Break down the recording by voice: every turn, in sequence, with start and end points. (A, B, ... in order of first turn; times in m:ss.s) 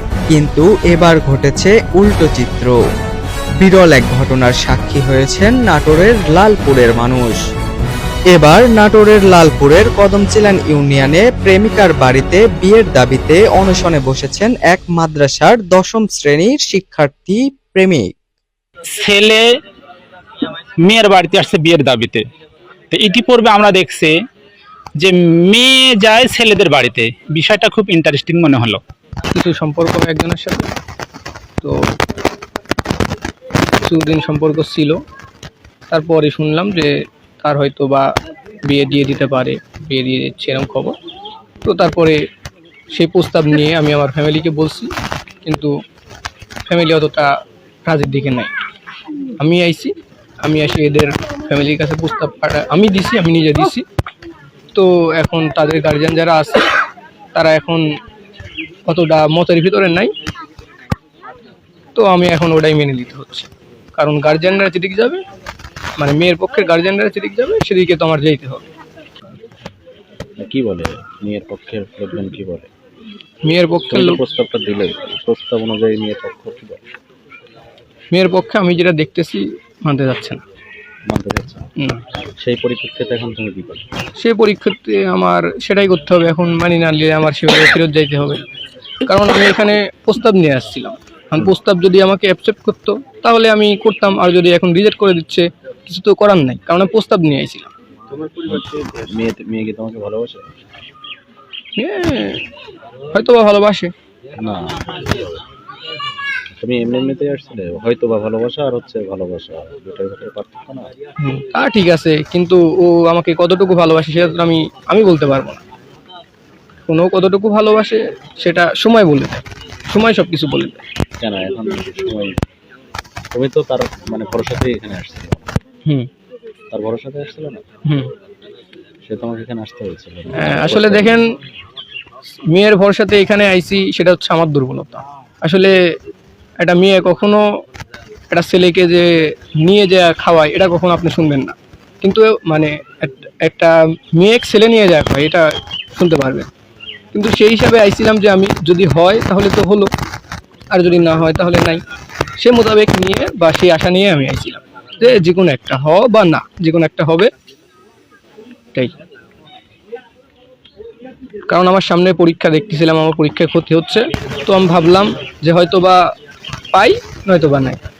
0:00.3-0:02.7 A
0:03.6-0:07.4 A
0:08.3-0:18.1 A
0:18.9-0:19.4 B
0:20.8-0:22.2 B
0:22.9-0:24.2 B
0:25.0-0:28.8 B
0:29.3-0:30.6 C
0:33.8-0:35.0 C
0:35.9-0:38.1 C
0:38.6-0:40.9 C
0:41.6-0:42.2 C
0:42.9-0:44.9 C
0:45.4-0:45.7 C
0:46.6-0:47.3 C
0:47.8-0:48.5 C
0:49.4-0:53.8 C
0:54.7-0:56.6 C
0:57.3-0:57.8 C
0:58.8-1:00.1 C
1:01.9-1:05.2 C
1:06.0-1:08.6 C
1:10.4-1:12.7 D
1:13.4-1:14.2 C
1:13.9-1:16.8 D
1:18.1-1:20.4 C
1:21.1-1:21.7 D
1:22.4-1:23.8 D
1:24.2-1:28.4 C
1:29.0-1:37.7 C
1:38.1-1:40.5 D
1:41.8-1:42.5 C
1:43.1-1:43.9 C
1:44.4-1:45.3 D
1:46.6-1:50.9 D
1:51.2-1:55.6 C
1:56.9-2:00.8 C
2:01.2-2:02.4 D
2:03.3-2:05.6 D
2:06.7-2:07.6 D
2:07.8-2:08.1 C
2:09.0-2:11.2 D
2:10.4-2:11.2 C
2:12.5-2:15.7 C
2:16.6-2:17.4 C
2:18.3-2:26.5 C
2:27.1-2:29.9 C
2:30.7-2:31.8 C
2:32.4-2:37.3 C
2:41.5-2:46.0 C
2:46.7-2:47.8 C